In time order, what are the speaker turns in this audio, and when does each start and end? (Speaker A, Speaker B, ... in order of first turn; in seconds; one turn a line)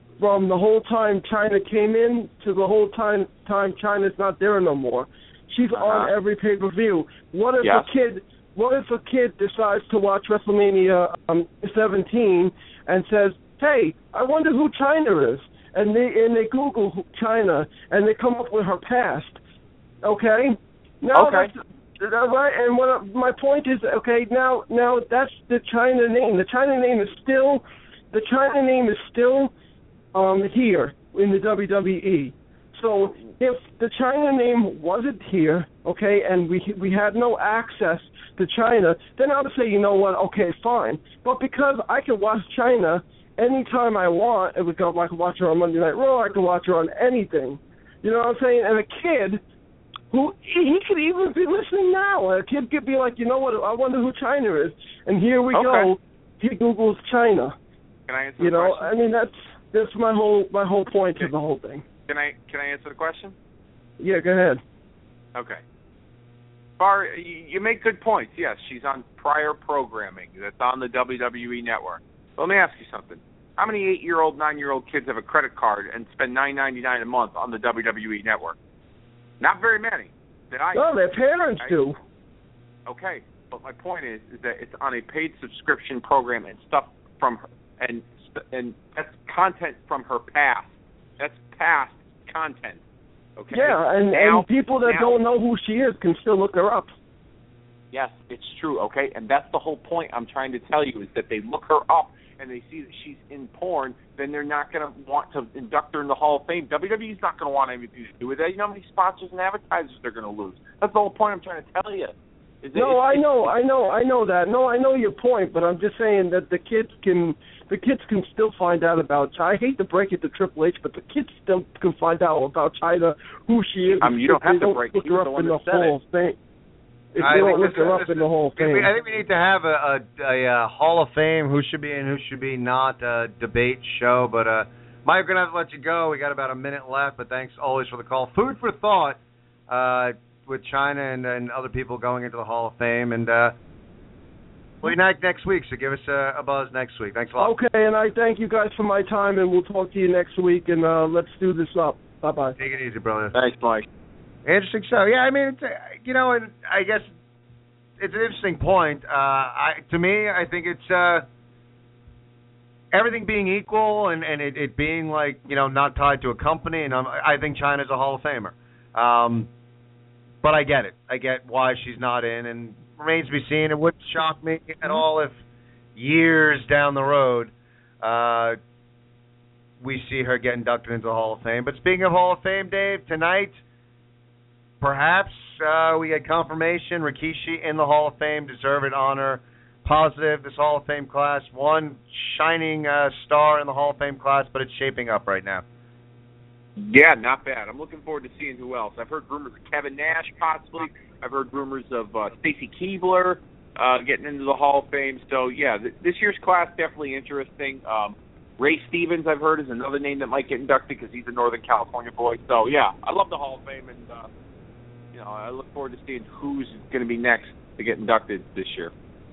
Speaker A: 0.2-19.4
Speaker B: 5.7-6.1
Speaker A: 20.0-29.5
Speaker B: 21.1-21.5
Speaker A: 30.1-49.4
Speaker A: 50.1-57.5
Speaker B: 55.5-55.9
Speaker B: 58.1-59.0
Speaker A: 58.4-61.8
Speaker B: 62.1-63.4
Speaker A: 64.0-64.6
Speaker B: 65.3-65.6
Speaker B: 66.8-78.6
Speaker B: 79.4-80.9
Speaker A: 80.7-82.0
Speaker B: 82.9-92.8
Speaker B: 93.4-95.2
Speaker A: 93.5-96.9
Speaker B: 97.9-113.5
Speaker A: 112.8-126.4
Speaker B: 124.0-126.0
Speaker A: 127.2-128.9
Speaker C: 127.2-143.6
Speaker B: 127.3-127.8
Speaker C: 144.8-147.5
Speaker A: 147.4-152.6
Speaker C: 152.6-153.3
Speaker B: 153.3-153.8
Speaker C: 154.4-157.1
Speaker C: 158.0-161.3
Speaker C: 162.9-169.5
Speaker C: 170.4-175.4
Speaker C: 176.0-178.6
Speaker C: 179.8-183.6
Speaker C: 184.8-195.6
Speaker B: 196.8-214.3
Speaker B: 215.1-218.9